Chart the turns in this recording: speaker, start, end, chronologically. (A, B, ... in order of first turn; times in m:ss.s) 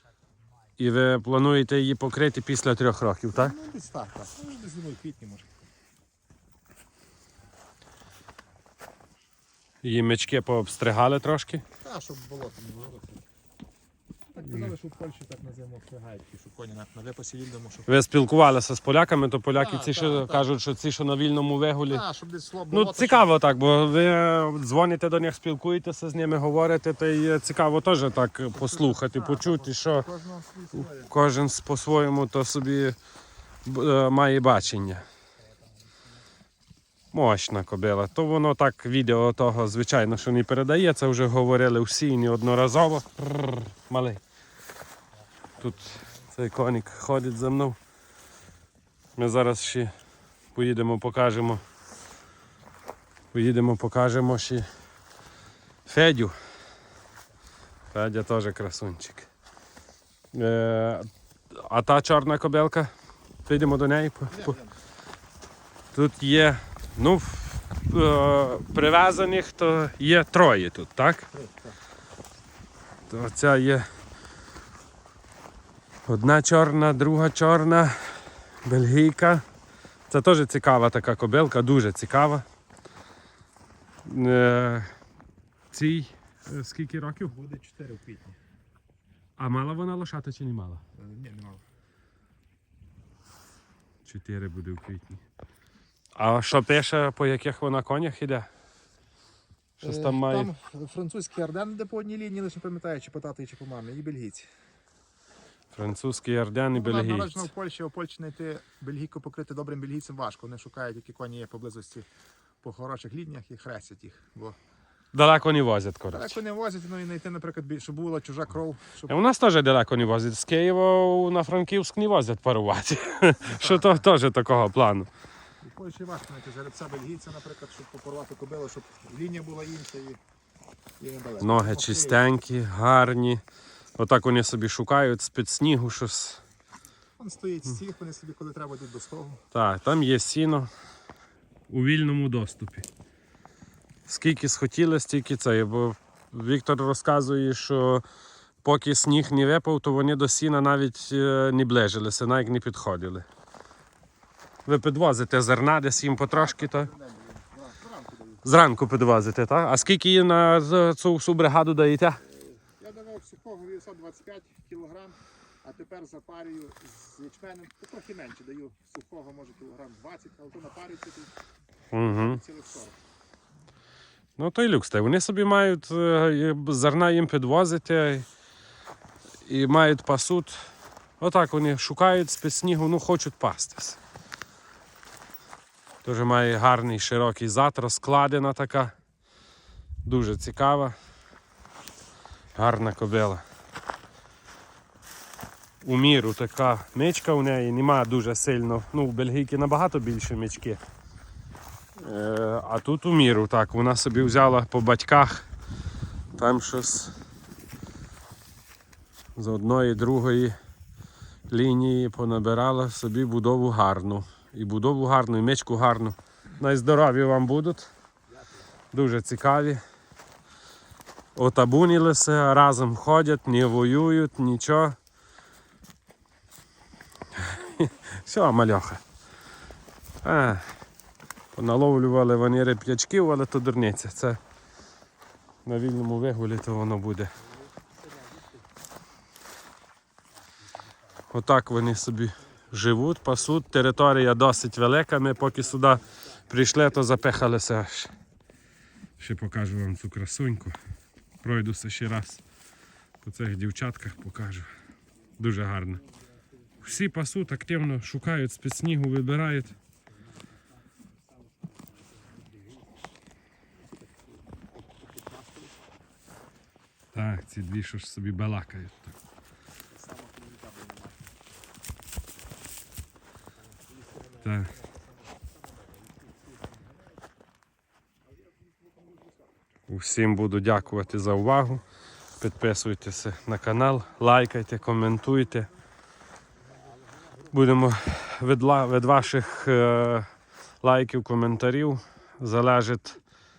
0:00.8-0:03.5 A
0:03.3-0:05.4 B
0:09.8-0:11.6 A
0:11.8-0:13.2 B
0:14.3-0:17.9 B
0:17.9-0:22.0 A
0:19.5-0:20.5 B
0:21.9-0:23.3 B
0:22.7-0:30.0 A
0:28.5-0:31.1 B
0:30.9-0:33.0 A
0:33.6-0:35.0 A
0:37.1-0:44.2 A
0:45.6-0:47.8 A
0:49.2-0:49.9 A
0:50.5-0:51.6 A
0:53.3-0:54.7 A
0:55.8-0:56.3 A
0:57.9-0:59.3 A
1:00.3-1:02.9 A
1:03.4-1:04.6 A
1:04.3-1:04.7 B
1:05.9-1:11.3 A
1:11.3-1:11.8 B
1:13.1-1:13.8 A
1:16.0-1:19.4 A
1:20.1-1:22.4 A
1:24.0-1:24.9 A
1:25.7-1:27.3 A
1:27.2-1:28.4 B
1:29.4-1:30.8 A
1:30.9-1:31.6 B
1:34.0-1:35.2 A
1:36.1-1:38.5 A
1:39.8-1:40.5 A
1:39.8-1:44.5 B
1:45.7-1:47.5 A
1:46.7-1:52.0 B
1:52.6-1:54.6 B
1:55.1-1:56.4 A
1:56.1-1:59.2 B
1:59.1-2:05.1 A
2:03.4-2:04.0 B
2:05.6-2:10.2 B
2:11.0-2:12.2 B
2:11.4-2:13.4 A
2:14.0-2:16.4 A
2:17.2-2:19.4 B
2:19.5-2:20.7 A
2:21.7-2:22.9 A
2:24.1-2:28.0 A
2:28.6-2:33.2 A
2:34.6-2:36.9 A
2:36.3-2:38.4 B
2:38.4-2:42.2 A
2:42.2-2:51.3 B
2:51.9-2:52.4 A
2:52.0-2:53.0 B
2:54.4-2:58.2 A
2:59.4-3:00.6 A
3:01.2-3:04.0 A
3:06.0-3:08.9 A
3:10.0-3:11.0 A
3:12.5-3:13.4 A
3:15.8-3:20.8 A
3:22.0-3:25.5 A
3:26.3-3:27.1 A
3:29.4-3:30.5 A
3:31.5-3:37.9 A
3:38.9-3:39.8 A
3:41.3-3:45.0 A
3:47.3-3:49.0 A
3:50.2-3:50.7 A
3:51.5-3:54.4 A
3:55.6-3:57.3 A
4:01.3-4:08.1 A
4:09.2-4:10.8 A
4:11.4-4:12.4 A
4:13.2-4:14.7 A
4:15.4-4:16.0 A
4:16.8-4:19.7 A
4:23.8-4:25.7 B
4:27.1-4:29.1 A
4:29.9-4:31.3 B
4:34.4-4:34.7 A
4:39.9-4:41.8 A
4:42.4-4:45.7 A
4:47.5-4:50.3 A
4:50.8-4:53.2 A